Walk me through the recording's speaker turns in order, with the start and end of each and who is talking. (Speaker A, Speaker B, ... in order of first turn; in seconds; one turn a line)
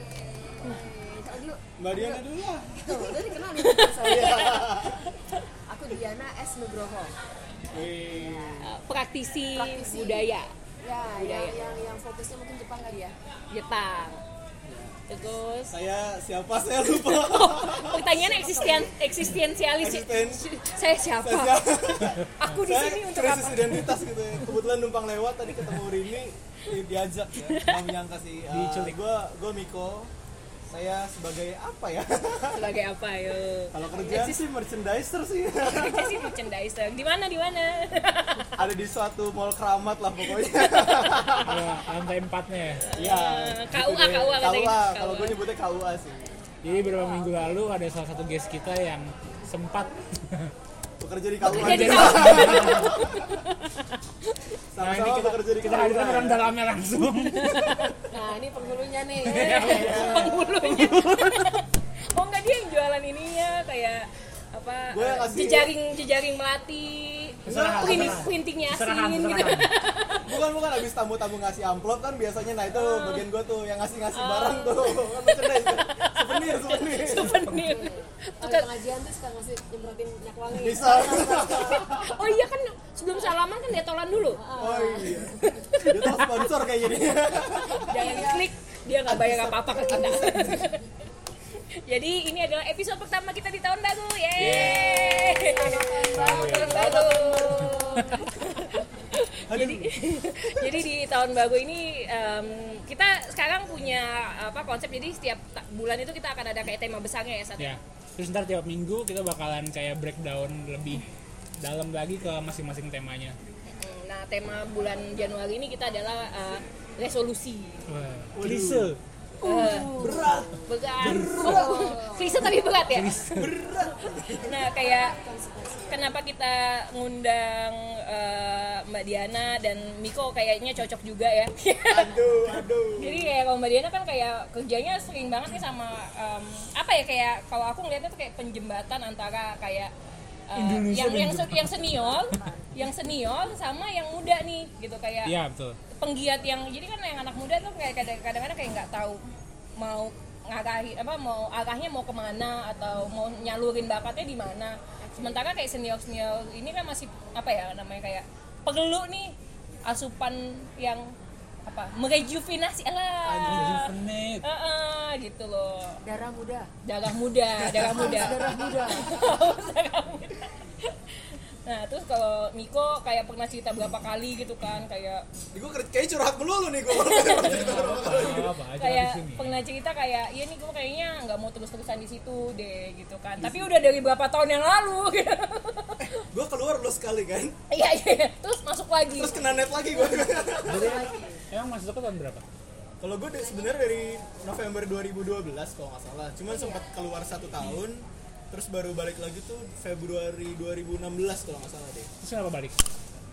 Speaker A: 0.6-2.2
Speaker B: 1.8-5.1
Speaker A: 2.8-4.7
Speaker C: 3.6-5.4
Speaker A: 5.7-7.1
Speaker B: 7.7-8.6
Speaker A: 8.0-8.7
Speaker C: 8.6-10.5
Speaker A: 9.5-10.3
Speaker A: 10.8-13.2
Speaker C: 11.2-11.6
Speaker C: 13.5-14.2
Speaker B: 14.6-15.0
Speaker C: 15.1-15.8
Speaker B: 15.7-18.9
Speaker C: 16.8-23.9
Speaker A: 18.1-18.9
Speaker B: 19.8-20.5
Speaker B: 21.1-30.1
Speaker C: 27.4-27.9
Speaker D: 28.5-29.0
Speaker B: 30.7-32.8
Speaker C: 32.5-34.4
Speaker B: 33.7-36.4
Speaker C: 35.6-38.5
Speaker B: 38.5-41.6
Speaker C: 40.4-41.3
Speaker D: 41.4-42.9
Speaker C: 42.9-45.4
Speaker B: 42.9-46.4
Speaker D: 46.6-50.5
Speaker A: 46.7-47.5
Speaker B: 51.0-53.3
Speaker D: 51.5-53.0
Speaker C: 51.5-53.8
Speaker B: 54.7-56.4
Speaker D: 54.8-57.8
Speaker C: 57.3-57.9
Speaker A: 58.1-60.2
Speaker C: 59.2-70.3
Speaker D: 59.2-60.2
Speaker B: 59.5-60.6
Speaker D: 60.7-61.5
Speaker B: 64.9-65.7
Speaker D: 67.5-69.7
Speaker B: 67.5-68.3
Speaker B: 70.2-77.5
Speaker C: 72.7-73.2
Speaker C: 74.1-78.7
Speaker A: 77.5-82.2
Speaker B: 80.5-82.1
Speaker C: 81.6-84.4
Speaker A: 84.3-85.3
Speaker B: 84.5-88.0
Speaker C: 85.4-86.6
Speaker A: 87.6-88.5
Speaker C: 87.8-90.8
Speaker B: 89.0-90.7
Speaker A: 89.7-90.5
Speaker C: 91.6-107.8
Speaker D: 94.4-94.8
Speaker B: 94.4-97.8
Speaker A: 94.4-98.2
Speaker D: 96.1-96.8
Speaker B: 98.5-98.9
Speaker B: 99.5-99.9
Speaker D: 107.6-111.0
Speaker D: 111.6-113.4
Speaker C: 113.7-117.9
Speaker D: 117.9-119.0
Speaker B: 118.3-122.0
Speaker C: 119.4-123.2
Speaker A: 119.7-120.7
Speaker A: 121.4-122.6
Speaker D: 122.9-123.5
Speaker B: 123.2-124.7
Speaker C: 124.4-125.2
Speaker A: 124.6-126.1
Speaker C: 125.9-132.2
Speaker B: 131.9-133.3
Speaker C: 132.9-139.9
Speaker C: 140.5-145.3
Speaker D: 140.5-141.8
Speaker A: 141.8-142.8
Speaker D: 145.2-145.8
Speaker C: 145.9-149.2
Speaker C: 149.8-161.1
Speaker A: 155.0-155.4
Speaker C: 161.6-163.9
Speaker B: 163.2-163.9
Speaker D: 163.4-164.4
Speaker C: 164.4-166.0
Speaker A: 166.0-166.7
Speaker C: 166.8-175.2
Speaker B: 167.6-169.1
Speaker A: 167.8-169.5
Speaker B: 175.5-178.6
Speaker C: 176.9-186.1
Speaker D: 177.4-179.6
Speaker B: 183.4-183.7
Speaker B: 186.0-187.6
Speaker C: 187.7-191.2
Speaker B: 189.1-191.2
Speaker D: 190.7-192.4
Speaker A: 190.9-191.4
Speaker B: 193.0-202.1
Speaker A: 196.5-196.8
Speaker D: 202.2-202.8